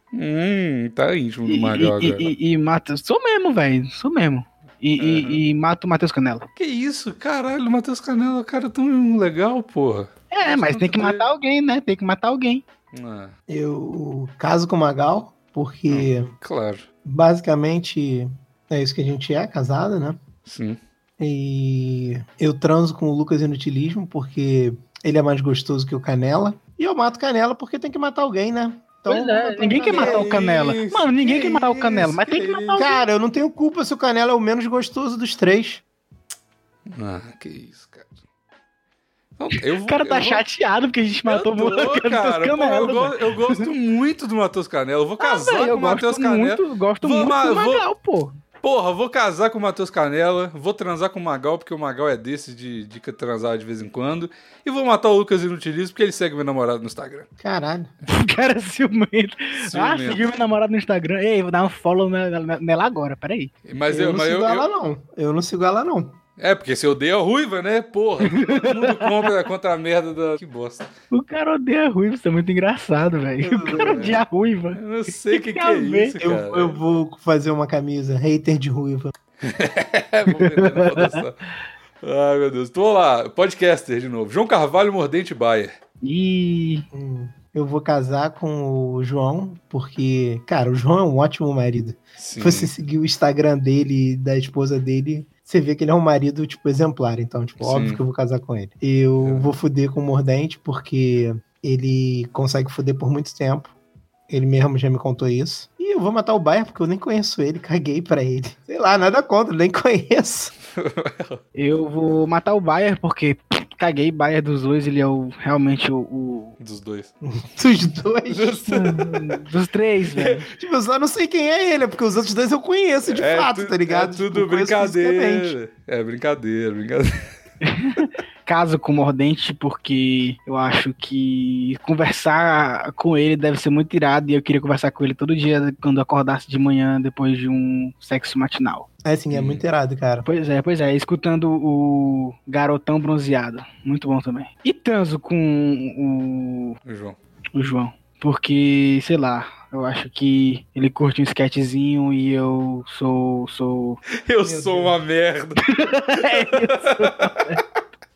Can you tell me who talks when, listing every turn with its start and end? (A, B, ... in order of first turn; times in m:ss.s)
0:00.1-0:02.3 A
0:01.5-0:06.5 B
0:05.0-0:05.4 A
0:06.6-0:11.3 A
0:10.3-0:12.6 B
0:12.9-0:13.4 A
0:13.5-0:16.3 C
0:15.9-0:16.8 A
0:17.0-0:20.2 C
0:20.5-0:20.8 A
0:21.2-0:30.4 C
0:29.1-0:33.0 B
0:29.8-0:32.8 A
0:32.7-0:35.8 C
0:36.9-0:38.1 A
0:39.4-0:40.4 A
0:39.9-0:43.7 B
0:41.3-0:47.9 A
0:45.2-0:48.4 B
0:48.6-0:57.3 A
0:57.4-0:57.9 C
0:58.1-1:03.5 B
0:59.6-1:00.3 A
1:03.7-1:04.7 A
1:03.9-1:06.2 C
1:06.4-1:10.9 A
1:08.3-1:09.3 B
1:11.1-1:16.2 B
1:13.4-1:14.2 C
1:13.8-1:14.2 A
1:14.8-1:16.8 A
1:16.2-1:19.1 C
1:19.4-1:21.4 A
1:20.3-1:21.2 B
1:22.0-1:25.8 A
1:26.0-1:26.9 B
1:26.9-1:43.7 C
1:32.2-1:32.7 A
1:37.6-1:38.0 A
1:39.2-1:39.6 A
1:44.3-1:50.5 C
1:50.7-1:51.4 A
1:51.6-1:56.6 B
1:56.6-1:57.1 A
1:57.2-1:58.6 C
1:58.3-1:59.4 A
1:58.7-2:00.5 B
2:00.2-2:00.4 A
2:00.6-2:05.6 C
2:03.0-2:07.3 A
2:07.6-2:18.9 B
2:19.0-2:20.3 C
2:19.3-2:19.6 A
2:20.2-2:26.8 B
2:26.8-2:27.2 A
2:27.6-2:34.0 B
2:34.2-2:35.6 A
2:34.4-2:34.9 C
2:35.6-2:37.6 B
2:36.2-2:37.6 A